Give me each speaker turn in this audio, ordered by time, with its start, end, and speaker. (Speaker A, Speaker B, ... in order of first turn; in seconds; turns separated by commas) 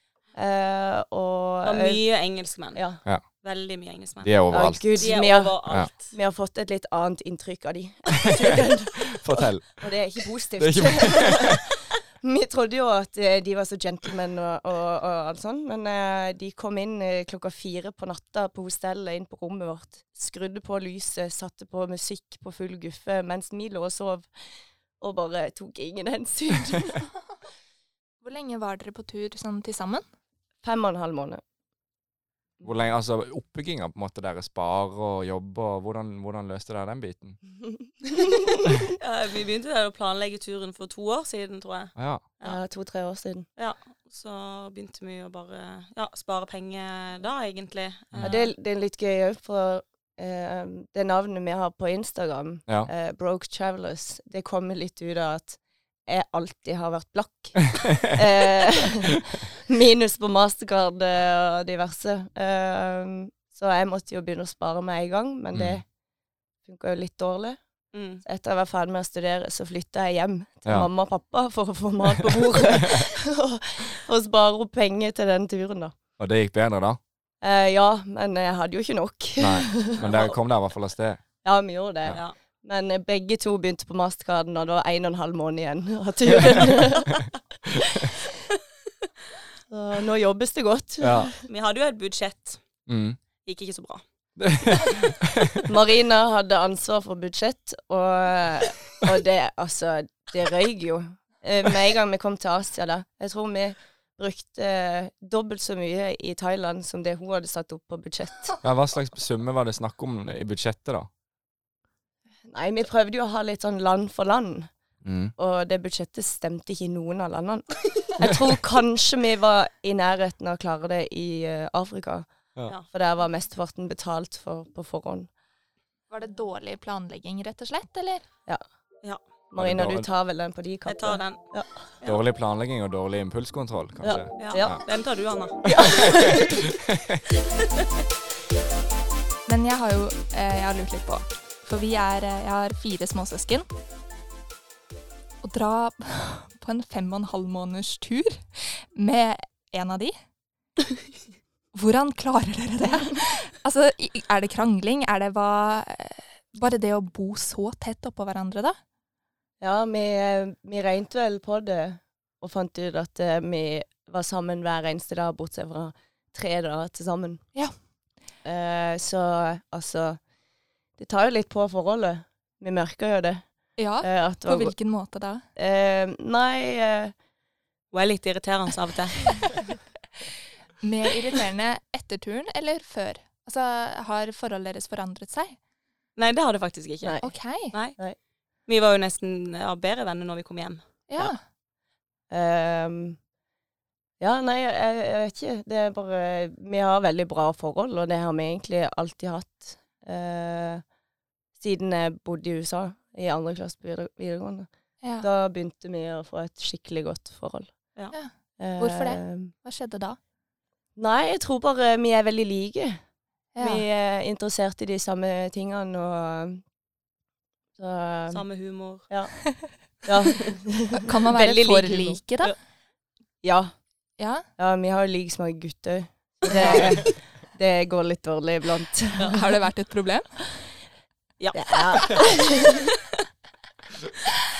Speaker A: 0.3-2.0, Speaker B: 1.6-6.1, Speaker A: 2.7-3.0, Speaker C: 4.2-4.9, Speaker A: 4.5-24.3, Speaker C: 9.0-9.8, Speaker C: 10.6-11.6, Speaker A: 25.0-27.1, Speaker D: 28.2-30.0, Speaker A: 30.6-31.4, Speaker C: 32.6-37.4, Speaker A: 38.1-38.7, Speaker B: 39.0-42.6, Speaker C: 42.0-42.2, Speaker A: 42.4-43.5, Speaker B: 43.6-48.5, Speaker A: 48.2-65.8, Speaker C: 65.5-65.8, Speaker A: 66.7-67.6, Speaker B: 67.9-68.2, Speaker A: 68.2-76.0, Speaker C: 72.8-73.1, Speaker C: 76.2-77.0, Speaker A: 77.4-80.1, Speaker C: 79.4-81.2, Speaker B: 80.0-80.3, Speaker A: 81.4-87.3, Speaker C: 86.3-86.6, Speaker A: 87.8-88.1, Speaker A: 89.7-91.3, Speaker C: 91.0-91.3, Speaker B: 91.5-92.6, Speaker C: 92.9-93.2, Speaker B: 93.5-94.0, Speaker C: 94.4-95.7, Speaker A: 95.7-108.6, Speaker C: 108.6-111.1, Speaker A: 112.5-114.7, Speaker C: 115.0-115.3, Speaker A: 115.4-122.3, Speaker A: 122.9-125.3, Speaker D: 126.1-128.2, Speaker A: 129.5-131.8, Speaker C: 129.6-130.1, Speaker B: 130.9-131.4, Speaker C: 132.1-134.8, Speaker A: 134.0-134.8, Speaker B: 134.4-135.9, Speaker A: 135.6-136.6, Speaker C: 135.9-137.2, Speaker D: 139.5-143.7, Speaker D: 145.4-150.2, Speaker D: 151.7-158.8, Speaker A: 159.6-167.4, Speaker A: 168.4-170.2, Speaker A: 171.0-173.4, Speaker D: 173.8-175.4, Speaker A: 174.0-174.7, Speaker A: 175.6-177.1, Speaker B: 177.9-179.4, Speaker D: 180.8-185.6, Speaker B: 186.2-188.0, Speaker A: 187.0-187.3, Speaker D: 187.2-187.8, Speaker B: 188.7-191.3, Speaker D: 191.1-191.4, Speaker A: 192.3-193.2, Speaker A: 194.2-200.8, Speaker A: 201.6-204.7, Speaker D: 205.0-205.3, Speaker A: 205.2-207.7, Speaker D: 208.1-210.2, Speaker A: 208.6-209.5, Speaker A: 211.0-213.0, Speaker D: 213.6-213.8, Speaker A: 213.6-216.6, Speaker A: 217.8-218.4, Speaker B: 218.3-219.1, Speaker A: 219.1-219.3, Speaker A: 220.0-221.8, Speaker D: 220.9-222.5, Speaker B: 221.4-222.6, Speaker A: 223.4-223.7, Speaker D: 224.2-224.4, Speaker A: 224.6-229.4, Speaker D: 226.5-227.0, Speaker D: 229.3-230.5, Speaker B: 231.4-232.3, Speaker A: 231.5-232.9